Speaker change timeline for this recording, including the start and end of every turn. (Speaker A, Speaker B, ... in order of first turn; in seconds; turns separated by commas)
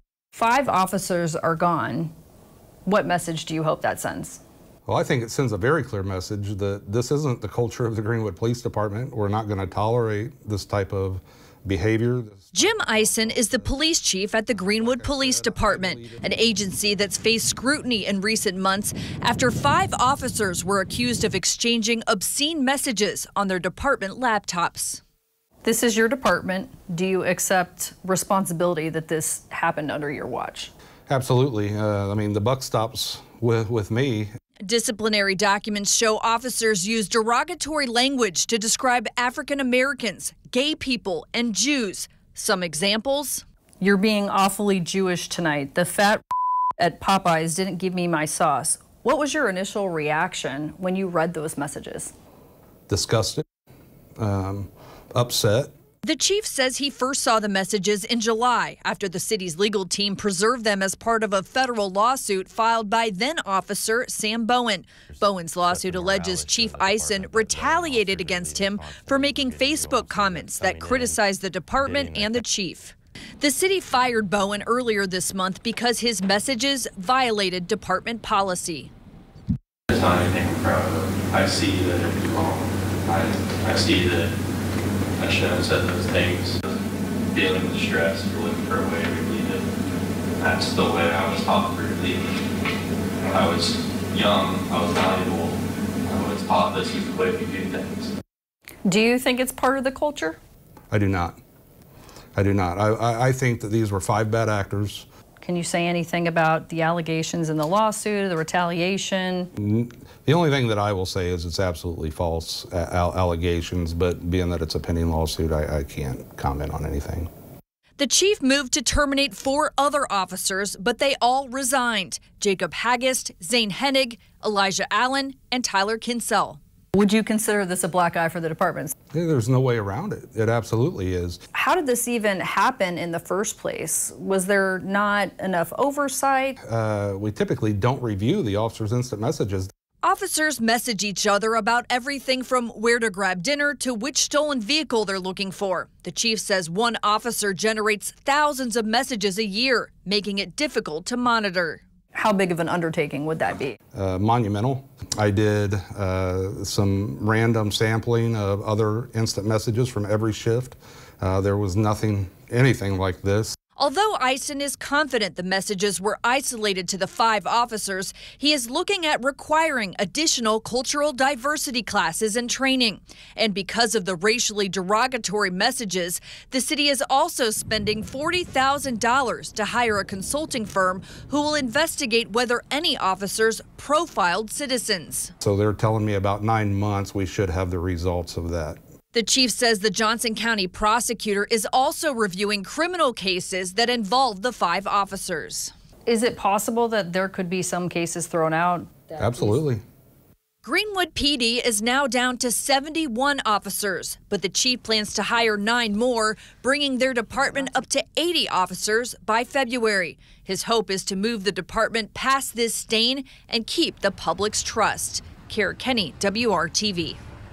Speaker A: 0.3-2.1, Speaker A: 2.9-4.4, Speaker B: 4.8-13.8, Speaker C: 12.5-25.0, Speaker B: 14.5-16.3, Speaker A: 25.6-30.7, Speaker B: 31.1-34.3, Speaker C: 34.7-43.4, Speaker A: 43.8-46.2, Speaker A: 46.8-52.1, Speaker B: 52.9-53.4, Speaker B: 54.2-55.7, Speaker C: 56.0-78.9, Speaker D: 65.1-71.2, Speaker D: 71.8-72.4, Speaker D: 79.9-84.3, Speaker D: 85.2-86.8, Speaker D: 87.3-89.6, Speaker D: 90.4-92.4, Speaker D: 93.2-98.1, Speaker A: 98.8-100.4, Speaker B: 100.9-101.4, Speaker B: 102.3-105.0, Speaker A: 105.4-109.5, Speaker B: 109.6-117.3, Speaker C: 118.0-126.6, Speaker A: 126.9-128.9, Speaker B: 129.1-131.4, Speaker A: 131.5-136.6, Speaker B: 136.6-139.7, Speaker C: 140.0-151.8, Speaker A: 152.1-153.8, Speaker B: 153.9-163.6, Speaker C: 163.8-185.3, Speaker B: 185.4-188.8, Speaker C: 189.1-195.7, Speaker A: 196.1-199.5, Speaker B: 199.2-199.8, Speaker C: 200.6-217.2